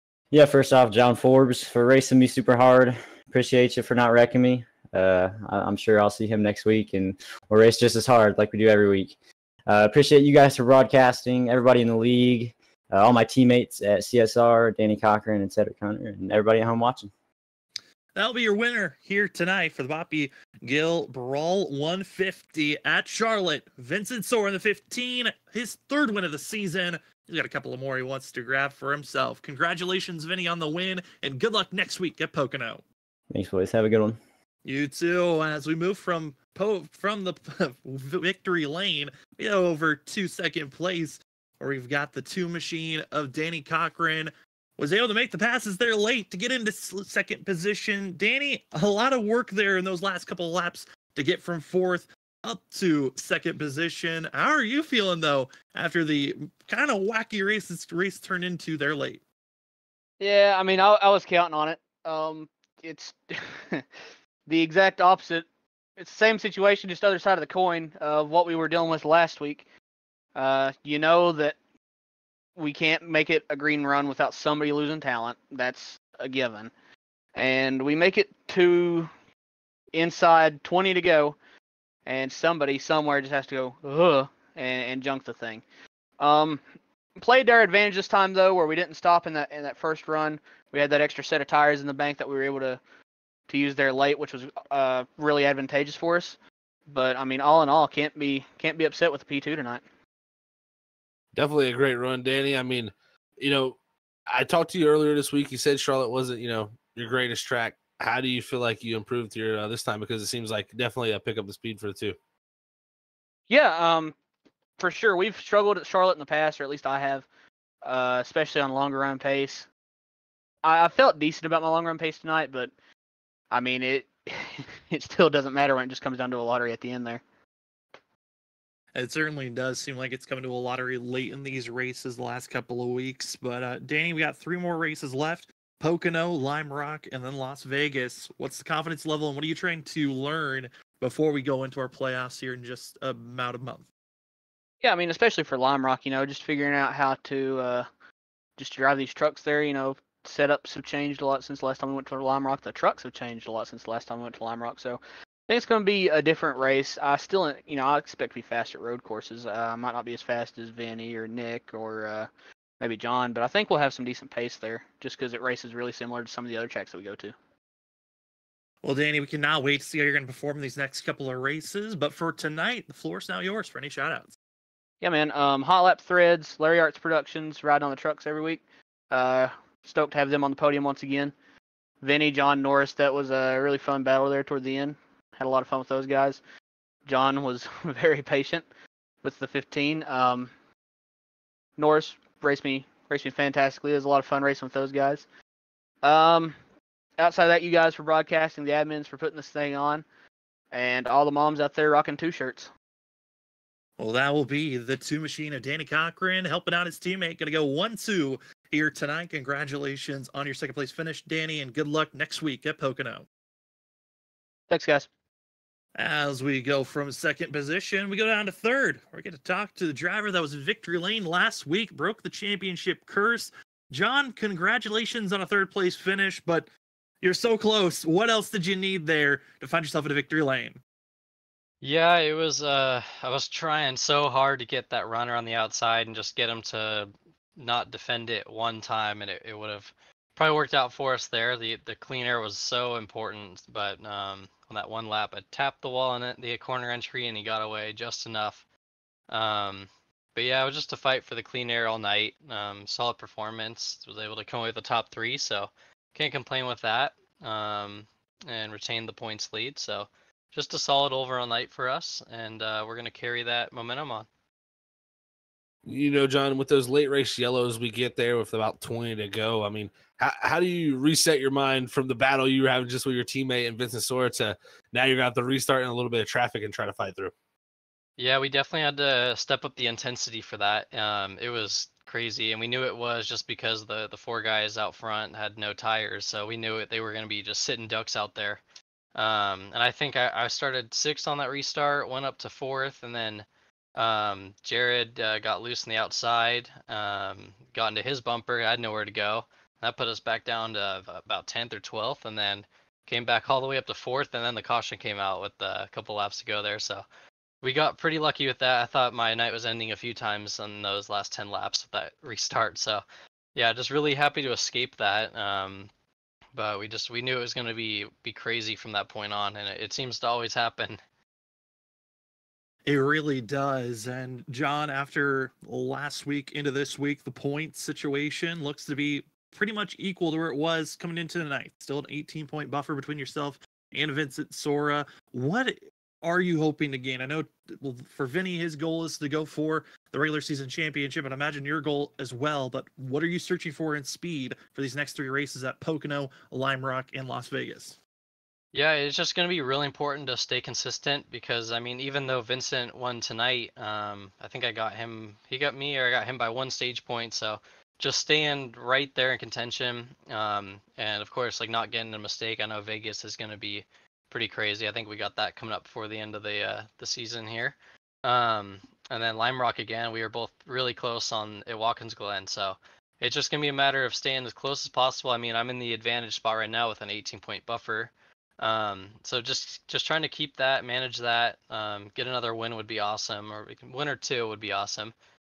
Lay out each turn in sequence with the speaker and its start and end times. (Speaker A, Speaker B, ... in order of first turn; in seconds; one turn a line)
Speaker A: 0.3-9.1
Speaker A: 9.7-17.1
Speaker B: 18.1-32.8
Speaker A: 33.3-34.2
Speaker B: 34.6-59.2
Speaker C: 60.2-63.9
Speaker C: 64.5-65.5
Speaker C: 66.0-69.6
Speaker C: 70.3-71.5
Speaker C: 72.6-76.7
Speaker C: 77.3-79.1
Speaker C: 79.9-81.3
Speaker C: 82.0-85.6
Speaker C: 86.2-86.6
Speaker C: 87.2-92.8
Speaker C: 93.5-96.4
Speaker C: 96.9-99.8
Speaker D: 101.3-103.8
Speaker D: 104.3-112.2
Speaker C: 113.5-114.1
Speaker C: 114.8-117.2
Speaker C: 117.8-119.7
Speaker C: 120.6-122.7
Speaker C: 123.5-127.2
Speaker B: 128.9-143.8
Speaker C: 144.8-147.9
Speaker C: 148.6-162.3
Speaker C: 162.8-167.3
Speaker B: 168.8-174.3
Speaker C: 175.0-181.3
Speaker C: 182.0-186.4
Speaker C: 187.1-188.7
Speaker C: 189.2-190.5
Speaker C: 191.8-195.2
Speaker C: 196.0-196.6
Speaker C: 197.2-200.0
Speaker C: 200.7-202.7
Speaker B: 204.0-213.2
Speaker C: 214.7-215.1
Speaker B: 215.9-226.7
Speaker B: 227.2-230.8
Speaker E: 231.8-248.6
Speaker E: 249.3-264.3
Speaker D: 265.8-277.3
Speaker E: 278.2-288.6
Speaker E: 289.1-307.0
Speaker E: 307.6-313.0
Speaker E: 313.5-315.9
Speaker E: 316.5-321.0
Speaker B: 322.9-348.0
Speaker E: 348.7-385.1